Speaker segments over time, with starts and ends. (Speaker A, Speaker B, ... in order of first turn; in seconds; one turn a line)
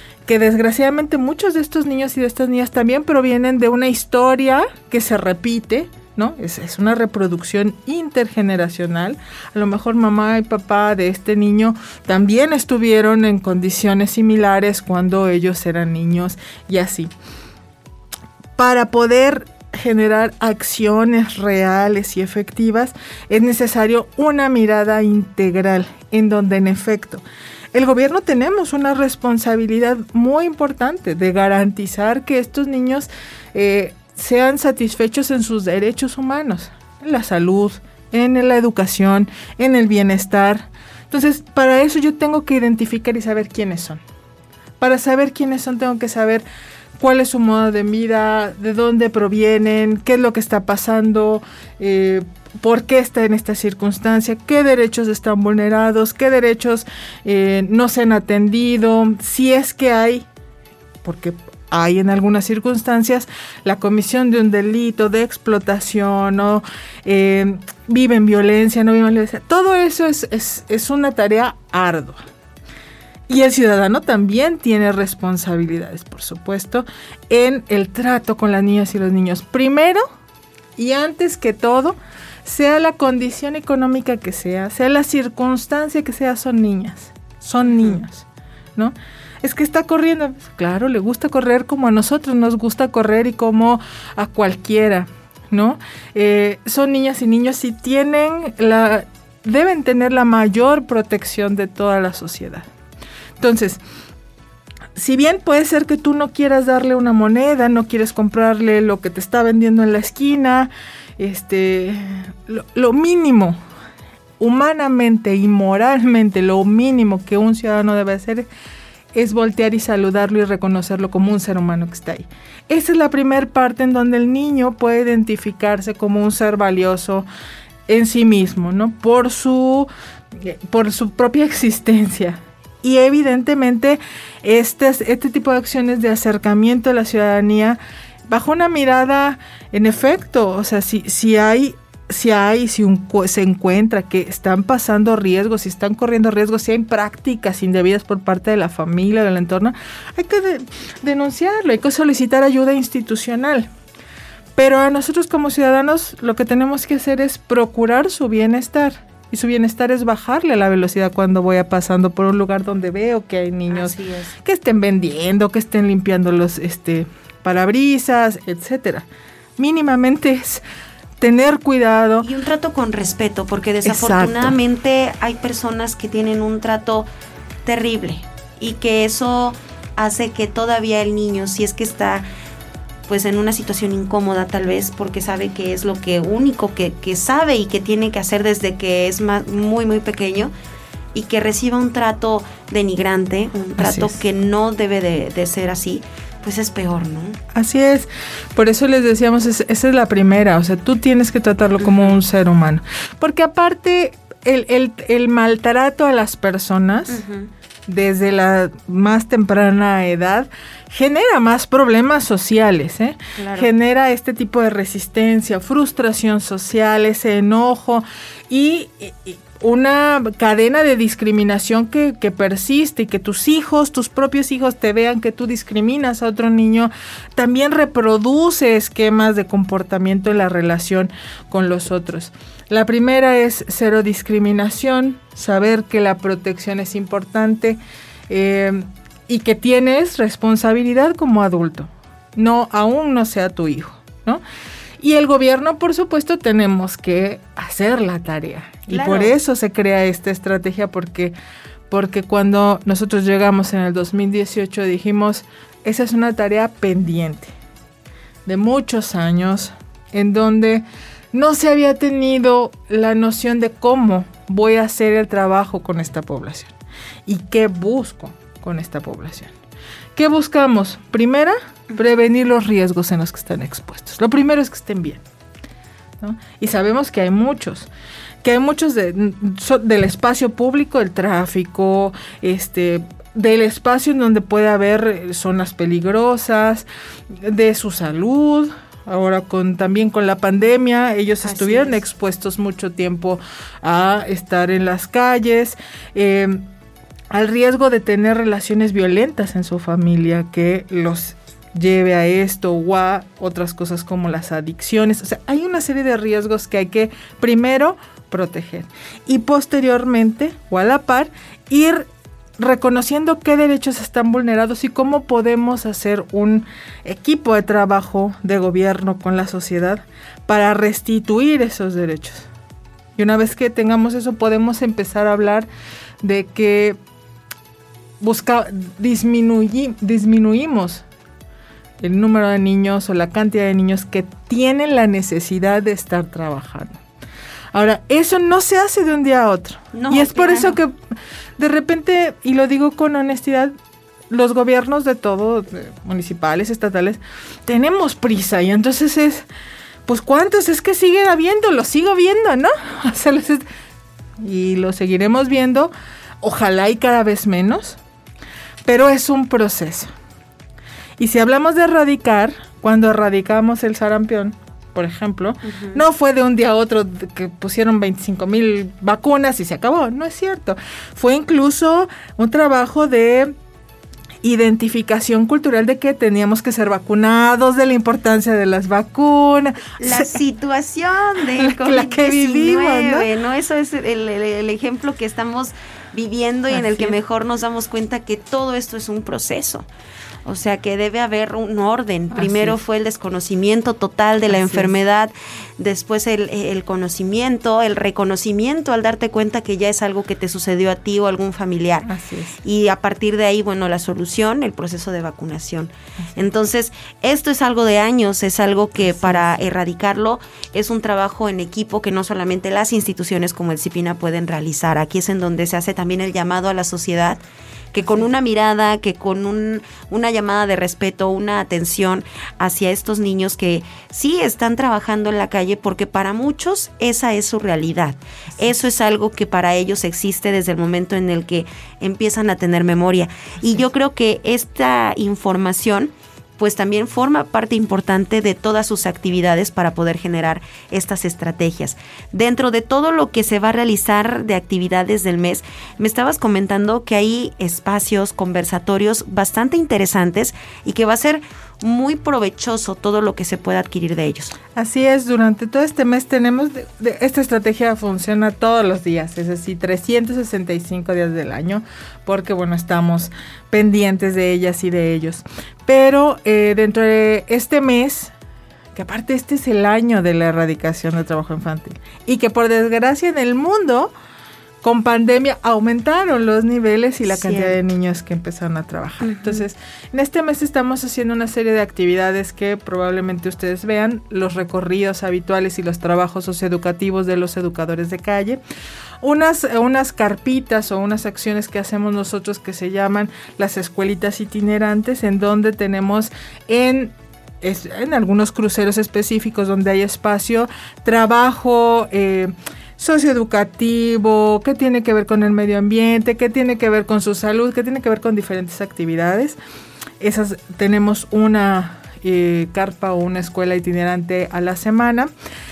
Speaker A: 0.2-17.1
Speaker A: 18.6-27.2
Speaker A: 27.7-44.0
Speaker A: 44.8-46.4
Speaker A: 47.0-60.2
Speaker A: 61.0-72.2
Speaker A: 73.3-80.0
Speaker A: 80.8-88.2
Speaker B: 87.7-88.0
Speaker A: 88.8-102.7
Speaker A: 103.4-103.8
Speaker A: 105.0-113.6
Speaker A: 114.4-118.5
Speaker A: 119.1-127.3
Speaker A: 127.9-153.7
Speaker A: 154.6-169.1
Speaker B: 163.7-164.3
Speaker A: 169.6-170.6
Speaker A: 171.2-172.3
Speaker B: 172.2-177.1
Speaker A: 173.8-174.6
Speaker B: 177.6-182.2
Speaker B: 183.1-190.5
Speaker B: 191.1-197.4
Speaker A: 193.8-194.2
Speaker A: 197.5-207.2
Speaker B: 201.8-202.2
Speaker B: 207.1-207.5
Speaker A: 207.9-244.4
Speaker B: 213.4-213.7
Speaker A: 245.0-251.3
Speaker B: 248.9-249.3
Speaker A: 251.9-257.5
Speaker A: 258.4-266.7
Speaker A: 267.2-269.5
Speaker A: 270.1-275.2
Speaker A: 276.2-277.9
Speaker A: 278.4-286.9
Speaker A: 287.4-296.6
Speaker B: 291.4-292.0
Speaker A: 297.3-322.5
Speaker A: 323.2-325.7
Speaker A: 326.2-327.0
Speaker A: 328.2-331.0
Speaker A: 332.0-337.0
Speaker A: 337.7-340.9
Speaker B: 339.9-340.8
Speaker A: 341.6-343.7
Speaker A: 344.3-349.4
Speaker A: 350.1-353.6
Speaker A: 354.4-358.0
Speaker A: 358.9-360.1
Speaker A: 361.2-373.5
Speaker B: 365.7-366.0
Speaker A: 374.4-380.3
Speaker B: 380.0-389.9
Speaker A: 381.6-383.3
Speaker A: 386.7-387.1
Speaker B: 390.4-402.1
Speaker A: 392.3-392.7
Speaker A: 394.5-394.9
Speaker A: 402.0-402.6
Speaker B: 402.6-417.4
Speaker A: 409.0-409.4
Speaker B: 417.9-454.5
Speaker A: 454.7-468.3
Speaker A: 468.9-474.1
Speaker A: 474.8-488.6
Speaker B: 477.3-477.8
Speaker B: 479.2-479.6
Speaker A: 489.2-509.6
Speaker A: 510.2-515.3